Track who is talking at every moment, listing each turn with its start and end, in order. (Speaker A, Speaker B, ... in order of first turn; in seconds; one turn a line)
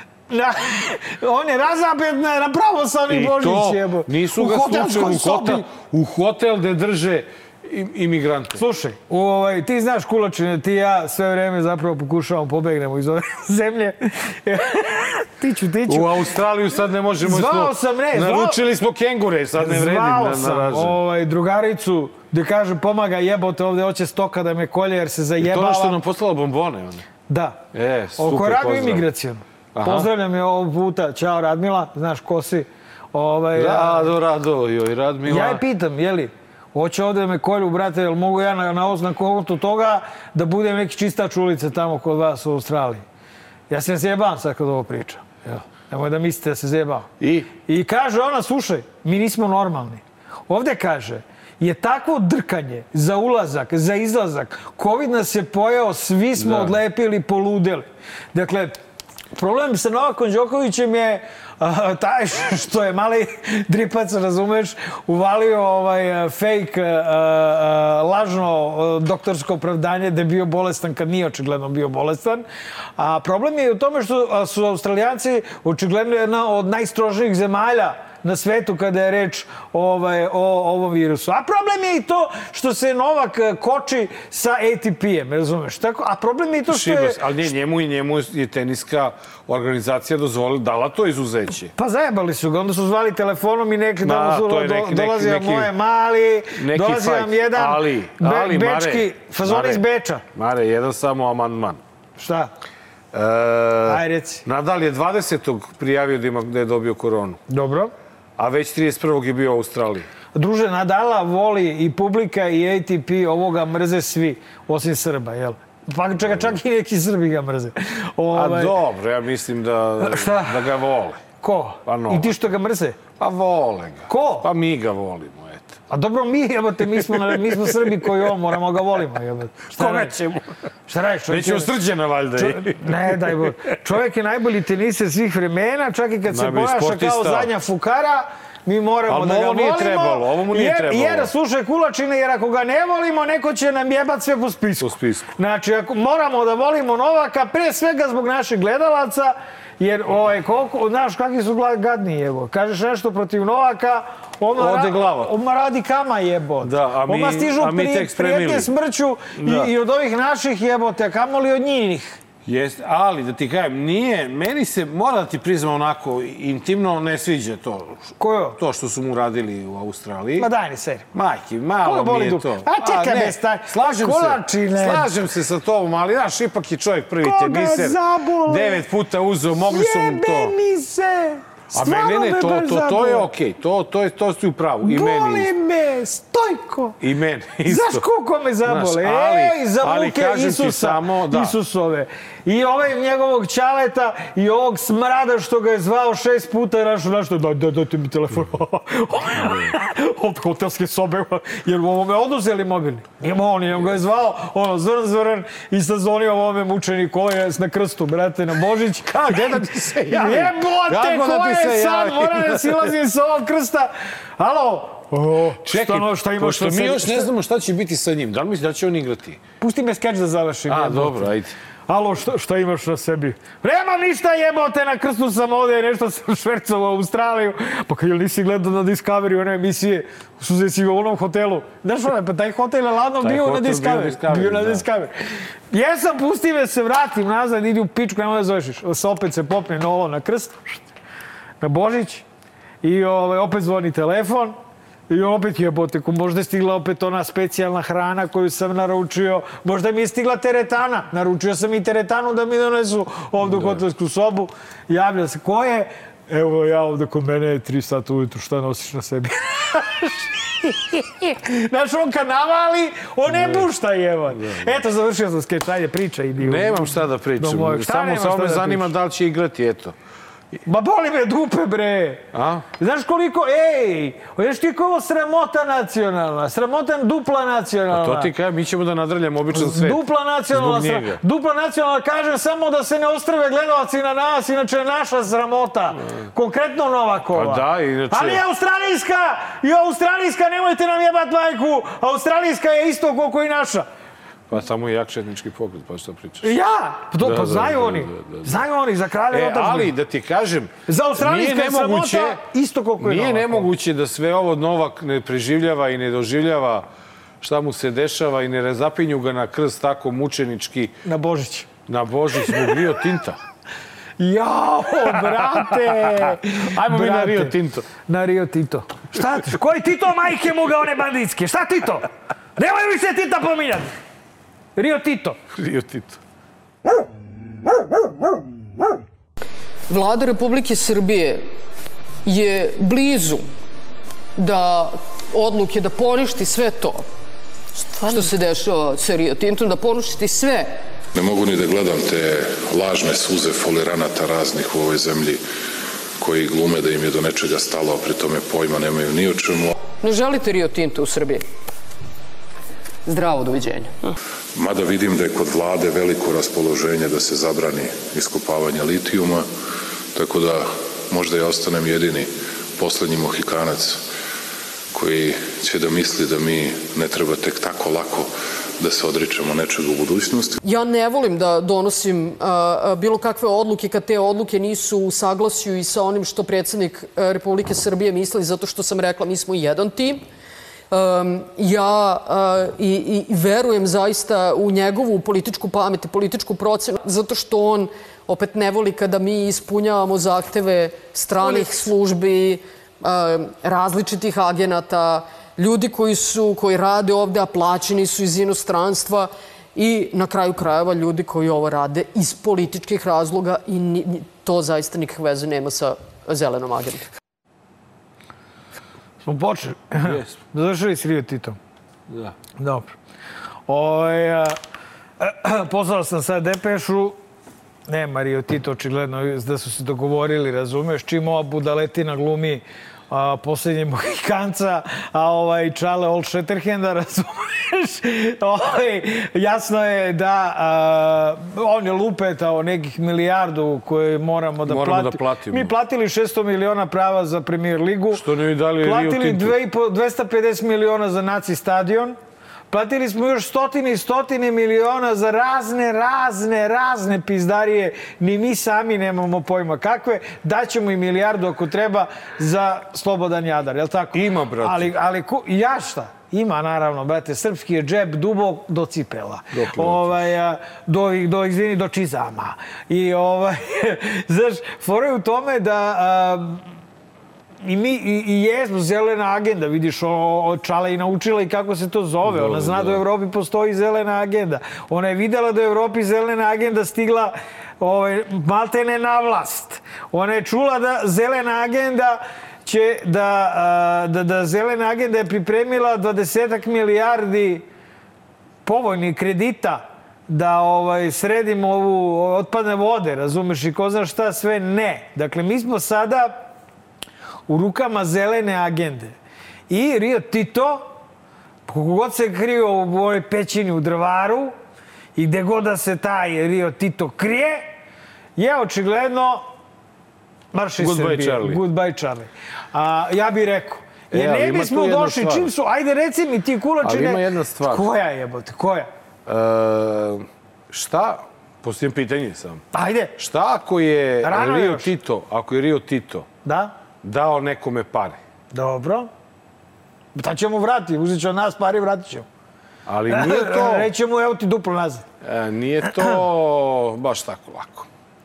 Speaker A: 0.3-5.6
Speaker B: 3.1-8.6
Speaker A: 8.6-16.1
Speaker B: 15.8-21.0
Speaker A: 17.2-18.6
Speaker A: 19.6-26.0
Speaker B: 25.4-27.0
Speaker A: 27.3-27.6
Speaker B: 27.7-29.1
Speaker A: 28.2-34.1
Speaker B: 29.7-30.1
Speaker B: 33.5-35.6
Speaker A: 35.2-43.0
Speaker A: 43.7-45.2
Speaker A: 45.9-47.1
Speaker B: 47.2-47.5
Speaker A: 47.7-58.8
Speaker B: 56.4-56.8
Speaker A: 59.3-72.4
Speaker A: 73.0-87.2
Speaker B: 86.7-91.7
Speaker A: 91.8-100.2
Speaker B: 94.0-95.7
Speaker B: 96.5-101.8
Speaker A: 102.2-102.5
Speaker B: 103.1-107.4
Speaker A: 103.8-104.4
Speaker A: 107.5-107.9
Speaker B: 108.4-110.1
Speaker A: 110.3-118.8
Speaker B: 116.2-116.6
Speaker B: 118.3-121.2
Speaker A: 120.0-120.7
Speaker A: 121.4-123.0
Speaker B: 121.8-122.3
Speaker B: 123.2-125.8
Speaker A: 124.1-124.5
Speaker A: 125.9-131.7
Speaker B: 127.3-127.8
Speaker B: 129.7-130.2
Speaker B: 131.3-133.5
Speaker A: 132.4-162.2
Speaker B: 136.3-137.5
Speaker B: 139.1-141.3
Speaker B: 144.8-145.3
Speaker B: 154.5-155.3
Speaker B: 156.6-158.7
Speaker B: 159.3-159.7
Speaker B: 162.4-168.0
Speaker A: 168.2-168.6
Speaker B: 168.5-170.5
Speaker A: 170.4-171.1
Speaker B: 171.1-180.5
Speaker A: 171.8-175.1
Speaker A: 177.2-178.8
Speaker A: 179.6-183.3
Speaker B: 181.7-185.5
Speaker A: 184.8-187.0
Speaker B: 187.0-188.0
Speaker A: 187.6-217.3
Speaker B: 188.6-191.5
Speaker B: 209.1-212.9
Speaker B: 215.6-219.4
Speaker A: 219.6-221.3
Speaker B: 220.7-221.5
Speaker A: 221.9-235.1
Speaker B: 233.2-234.9
Speaker A: 235.7-240.8
Speaker A: 241.6-242.2
Speaker A: 242.8-244.6
Speaker A: 245.1-268.9
Speaker B: 253.4-253.8
Speaker B: 263.3-263.7
Speaker B: 264.3-264.7
Speaker B: 266.4-269.9
Speaker A: 270.6-272.2
Speaker B: 272.3-272.6
Speaker A: 272.8-278.3
Speaker B: 277.9-281.2
Speaker A: 279.5-293.9
Speaker B: 285.9-286.2
Speaker B: 287.3-288.4
Speaker B: 294.5-296.6
Speaker A: 296.4-299.9
Speaker B: 297.2-298.6
Speaker B: 299.3-302.4
Speaker A: 300.9-303.7
Speaker B: 303.0-306.9
Speaker B: 307.4-310.9
Speaker A: 311.0-311.7
Speaker B: 311.9-313.4
Speaker A: 314.2-317.5
Speaker B: 315.1-317.9
Speaker A: 318.1-323.9
Speaker A: 324.8-325.4
Speaker B: 325.5-326.2
Speaker C: 329.9-331.5
Speaker C: 332.2-333.4
Speaker C: 334.4-337.1
Speaker C: 338.0-340.7
Speaker D: 341.1-345.4
Speaker D: 346.2-349.7
Speaker C: 350.0-351.4
Speaker C: 353.1-353.9
Speaker D: 354.5-359.5
Speaker D: 360.1-364.0
Speaker D: 364.9-370.6
Speaker C: 370.6-380.2
Speaker C: 380.9-407.1
Speaker A: 409.2-411.6
Speaker B: 410.0-410.4
Speaker B: 412.1-412.4
Speaker A: 412.6-412.9
Speaker A: 413.7-414.6
Speaker A: 415.2-417.2
Speaker A: 417.9-438.2
Speaker B: 434.6-435.7
Speaker B: 438.1-439.6
Speaker A: 438.8-442.2
Speaker A: 442.7-466.6
Speaker B: 454.1-454.9
Speaker B: 459.5-460.1
Speaker A: 467.6-487.6
Speaker B: 472.2-473.0
Speaker A: 488.6-496.5
Speaker A: 497.5-499.1
Speaker A: 499.7-500.9
Speaker A: 501.7-504.6
Speaker A: 505.1-507.7
Speaker A: 508.4-509.5
Speaker A: 510.5-518.9
Speaker B: 510.8-511.6
Speaker B: 514.1-515.5
Speaker B: 516.8-517.9
Speaker B: 519.3-522.6
Speaker A: 522.7-523.1
Speaker B: 523.2-526.3
Speaker A: 524.2-524.9
Speaker A: 526.4-526.7
Speaker B: 527.0-528.2
Speaker A: 528.5-529.1
Speaker A: 530.1-532.3
Speaker B: 532.9-533.9
Speaker A: 533.1-535.0
Speaker B: 535.2-537.9